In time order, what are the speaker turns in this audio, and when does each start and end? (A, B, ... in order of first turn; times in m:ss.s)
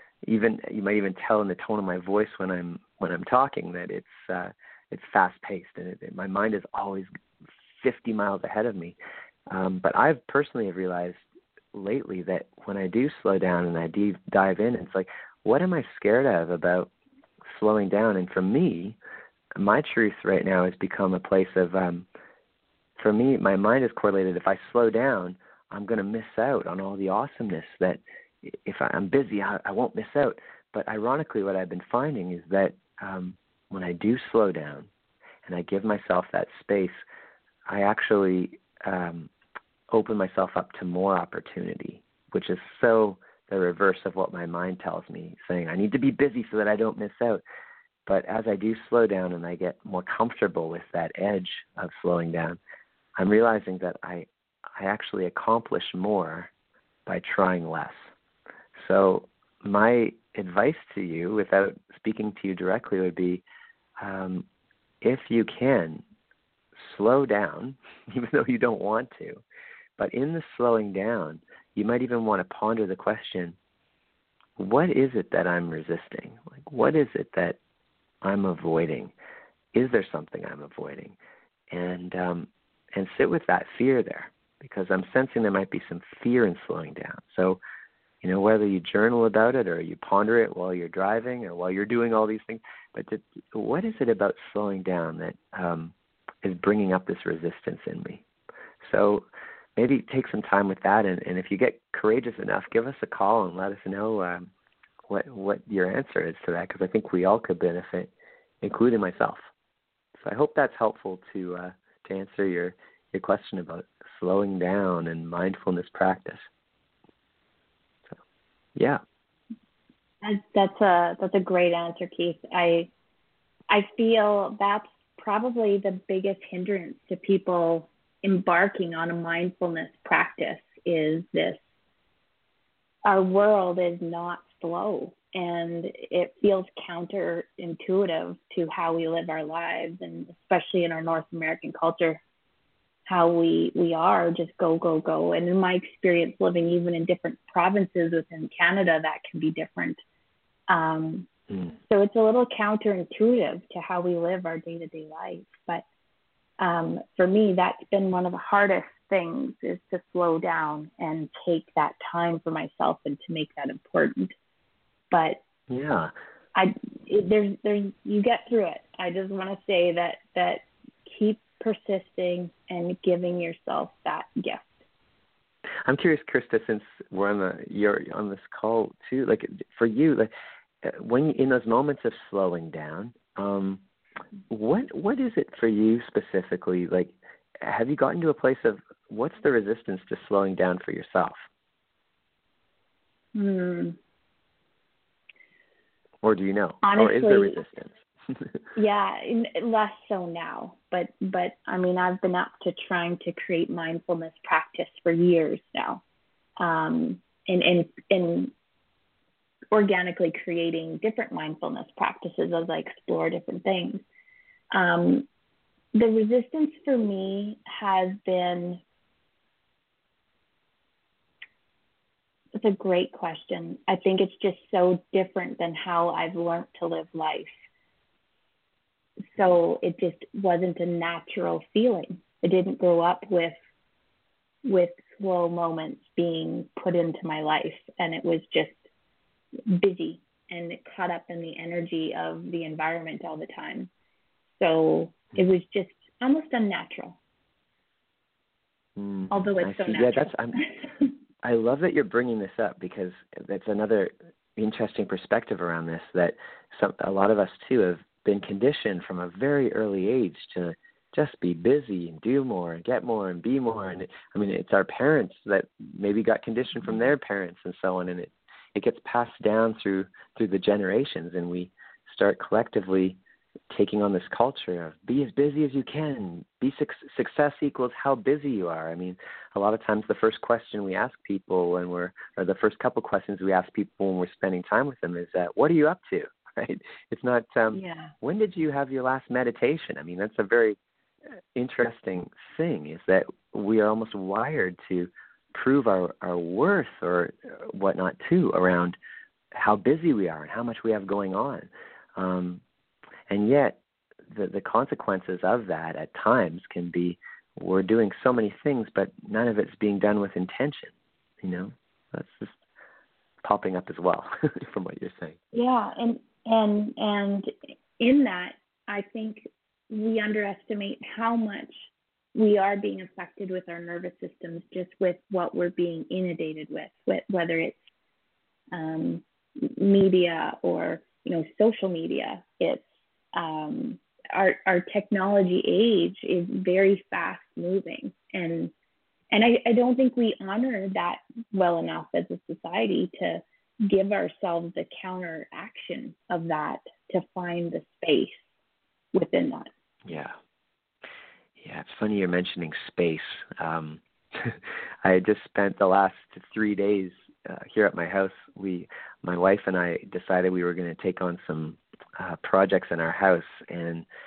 0:00.2-0:07.1 A
0:07.8-0:09.0 A
0:09.5-0:16.9 A
0:17.5-0:19.0 A
0:19.6-0:22.0 A
0:23.0-0:34.9 A
0:35.4-0:37.0 A
0:37.7-0:39.3 A
0:39.9-0:47.4 A
0:48.0-0:52.6 A
0:53.2-0:56.5 A
0:57.0-0:58.1 A
0:58.8-1:03.4 A
1:04.0-1:04.4 A
1:05.0-1:06.0 A
1:06.8-1:09.4 A
1:10.0-1:13.6 A
1:14.6-1:17.6 A
1:18.2-1:19.1 A
1:19.7-1:21.2 A
1:21.7-1:27.6 A
1:28.2-1:38.2 A
1:38.8-1:44.5 A
1:45.1-1:48.1 A
1:48.6-1:49.4 A
1:50.2-1:56.4 A
2:00.2-2:02.9 B
2:03.7-2:11.6 B
2:13.1-2:22.2 B
2:23.0-2:30.0 B
2:30.7-2:31.3 B
2:31.9-2:35.8 B
2:36.6-2:44.3 B
2:45.1-2:45.4 B
2:45.7-2:46.1 A
2:46.5-2:54.7 B
2:55.8-3:00.3 A
3:00.8-3:03.8 A
3:04.5-3:11.4 A
3:13.3-3:14.0 B
3:16.2-3:18.5 A
3:16.8-3:17.6 B
3:18.7-3:26.0 B
3:26.6-3:28.5 B
3:29.7-3:34.0 B
3:34.7-3:35.3 B
3:35.9-3:38.8 B
3:42.6-3:47.5 B
3:49.3-3:53.5 B
3:54.6-3:58.8 B
3:59.7-4:03.9 B
4:04.6-4:07.2 B
4:09.0-4:10.6 A
4:09.3-4:10.7 B
4:11.4-4:33.2 A
4:33.7-4:50.8 A
4:47.7-4:48.1 B
4:51.5-4:59.0 A
4:59.5-5:02.6 A
5:03.3-5:12.5 A
5:13.4-5:15.4 A
5:15.5-5:27.9 B
5:28.7-5:38.7 B
5:39.3-5:48.4 B
5:49.1-5:49.7 B
5:50.0-5:50.3 A
5:51.6-6:04.0 A